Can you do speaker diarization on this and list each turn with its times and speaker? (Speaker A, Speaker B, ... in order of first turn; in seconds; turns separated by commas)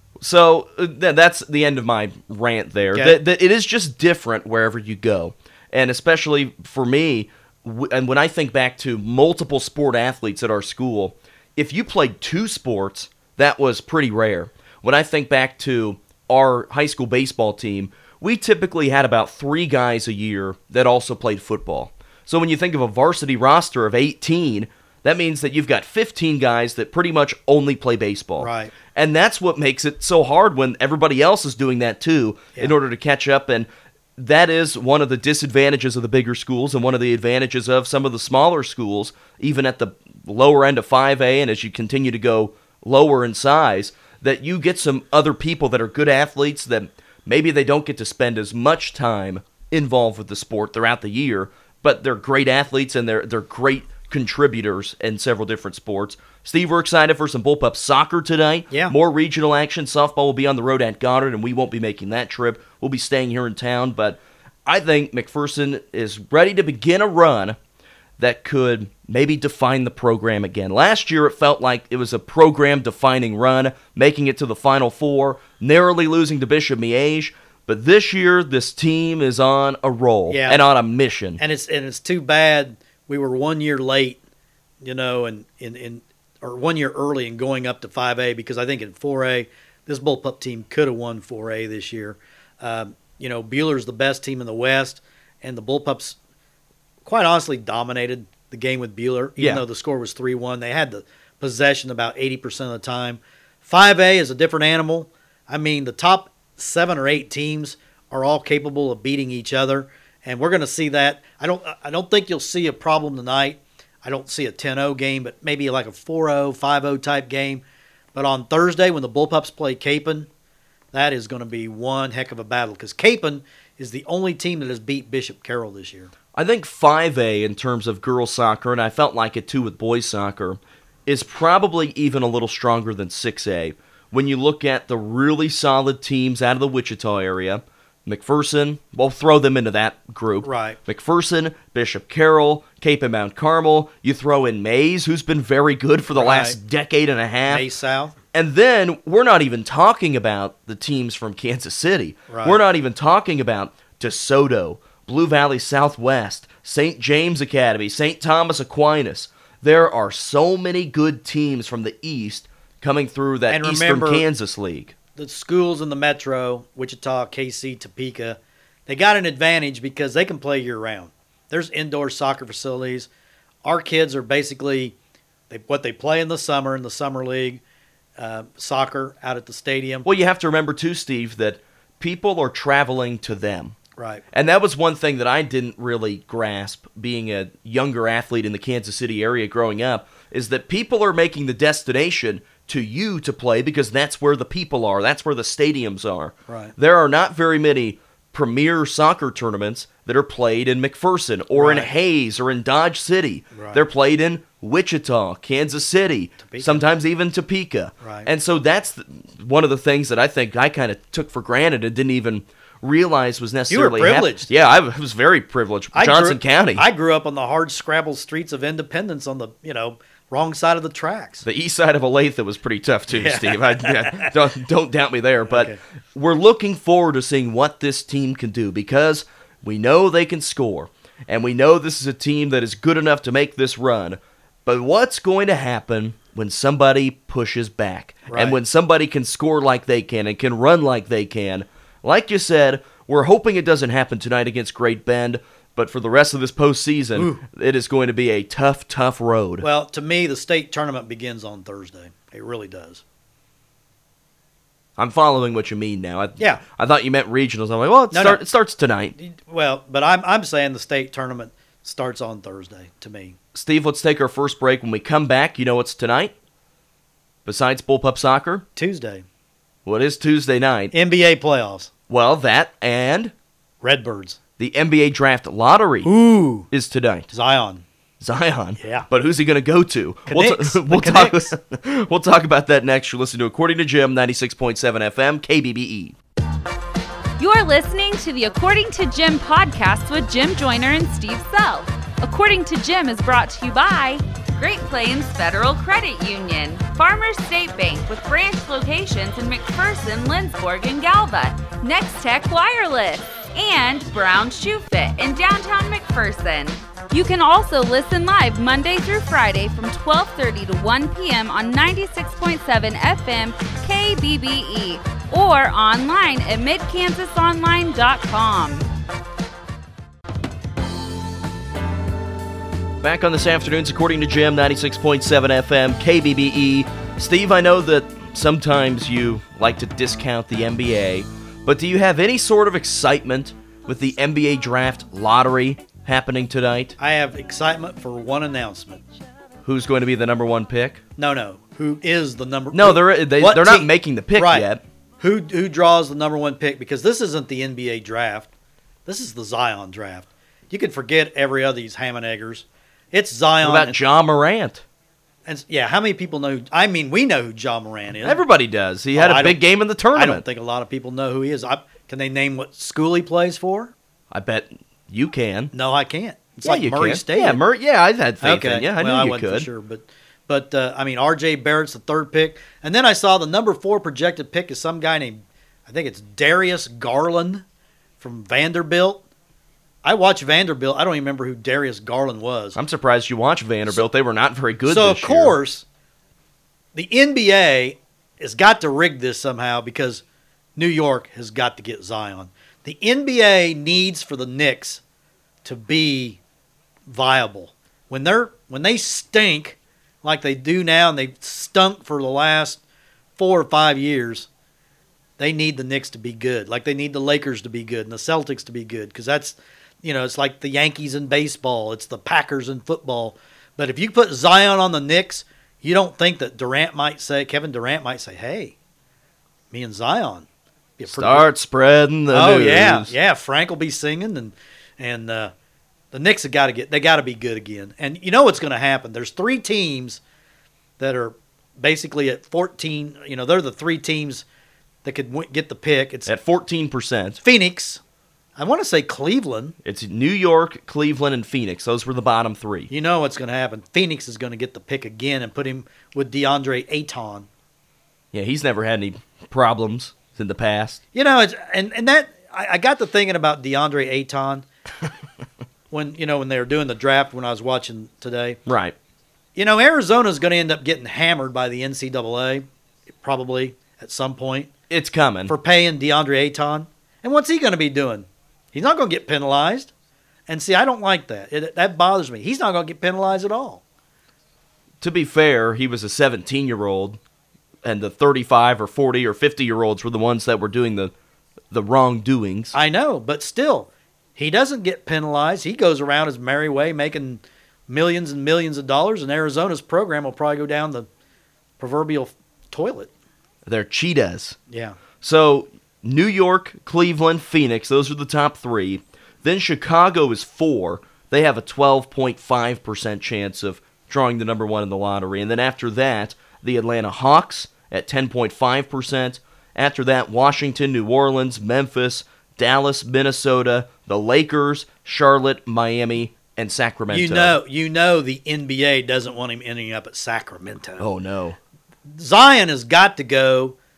Speaker A: 0.2-67.6, Speaker B: 2.9-3.2, Speaker B: 28.4-28.7, Speaker A: 68.2-81.4, Speaker B: 80.3-80.6, Speaker B: 81.4-84.2, Speaker B: 84.8-96.2, Speaker B: 97.0-117.6, Speaker A: 99.4-99.6, Speaker B: 118.1-120.3, Speaker B: 120.9-126.1, Speaker A: 126.3-147.6, Speaker B: 140.4-140.8, Speaker B: 146.1-146.6, Speaker B: 147.5-148.1, Speaker A: 148.3-164.9, Speaker B: 152.3-152.6, Speaker B: 163.5-164.2, Speaker B: 165.2-173.1, Speaker B: 173.6-174.9, Speaker B: 175.5-177.6, Speaker B: 178.2-180.1, Speaker A: 180.0-183.8, Speaker B: 183.9-184.2, Speaker A: 184.3-216.8, Speaker B: 196.5-196.7, Speaker B: 201.5-201.9, Speaker B: 203.5-203.8, Speaker B: 206.4-206.8, Speaker B: 208.0-208.3, Speaker B: 213.7-214.5, Speaker B: 215.9-221.4, Speaker A: 221.4-249.7, Speaker B: 223.1-224.3, Speaker B: 225.5-225.8, Speaker B: 238.3-238.6, Speaker B: 247.2-247.4, Speaker B: 249.6-253.0, Speaker A: 255.0-259.1, Speaker B: 258.1-258.4, Speaker B: 259.2-263.4, Speaker A: 263.5-266.3, Speaker A: 267.4-268.6, Speaker B: 268.8-269.2, Speaker A: 269.9-270.9, Speaker B: 270.9-271.9, Speaker A: 272.1-273.3, Speaker B: 273.8-274.4, Speaker A: 274.6-276.1, Speaker B: 276.0-276.7, Speaker A: 276.7-277.3, Speaker B: 277.3-277.8, Speaker A: 278.2-286.1, Speaker B: 278.8-279.1, Speaker B: 280.3-281.5, Speaker C: 287.4-318.9, Speaker A: 323.0-336.9, Speaker B: 337.0-339.0, Speaker A: 339.6-341.0, Speaker B: 341.2-344.7, Speaker A: 342.7-344.8, Speaker B: 345.2-348.5, Speaker B: 349.1-354.0, Speaker A: 353.6-354.8, Speaker B: 355.4-358.4, Speaker A: 358.2-360.4, Speaker B: 359.1-359.6, Speaker B: 360.1-363.9, Speaker A: 364.3-365.7, Speaker B: 365.7-367.6, Speaker A: 366.6-369.7, Speaker B: 368.4-377.6, Speaker B: 378.2-379.2, Speaker B: 380.0-382.8, Speaker A: 382.7-385.5, Speaker B: 384.9-385.8, Speaker B: 386.9-390.2, Speaker B: 390.8-395.0, Speaker B: 395.6-396.4, Speaker B: 397.1-402.8, Speaker B: 403.4-404.5, Speaker B: 405.4-418.7, Speaker B: 419.7-420.5, Speaker B: 421.0-421.5, Speaker A: 421.1-423.1, Speaker B: 422.3-425.5, Speaker B: 426.1-430.2, Speaker B: 431.0-434.4, Speaker B: 435.0-436.3, Speaker A: 436.3-437.4, Speaker B: 437.4-438.0, Speaker B: 438.6-439.8, Speaker A: 439.8-442.9, Speaker B: 442.9-447.5, Speaker A: 448.3-451.0, Speaker B: 451.1-454.6, Speaker B: 455.9-458.6, Speaker A: 458.6-458.9, Speaker B: 459.6-462.6, Speaker B: 463.2-464.7, Speaker A: 464.9-465.5, Speaker B: 465.5-469.9, Speaker B: 470.5-473.8, Speaker A: 475.0-477.2, Speaker A: 477.8-481.1, Speaker A: 481.7-482.7, Speaker B: 482.7-491.1, Speaker B: 491.8-493.1, Speaker A: 493.6-494.6, Speaker B: 494.7-495.0, Speaker A: 495.2-517.6, Speaker B: 517.1-521.1, Speaker A: 521.0-521.6, Speaker B: 522.1-523.8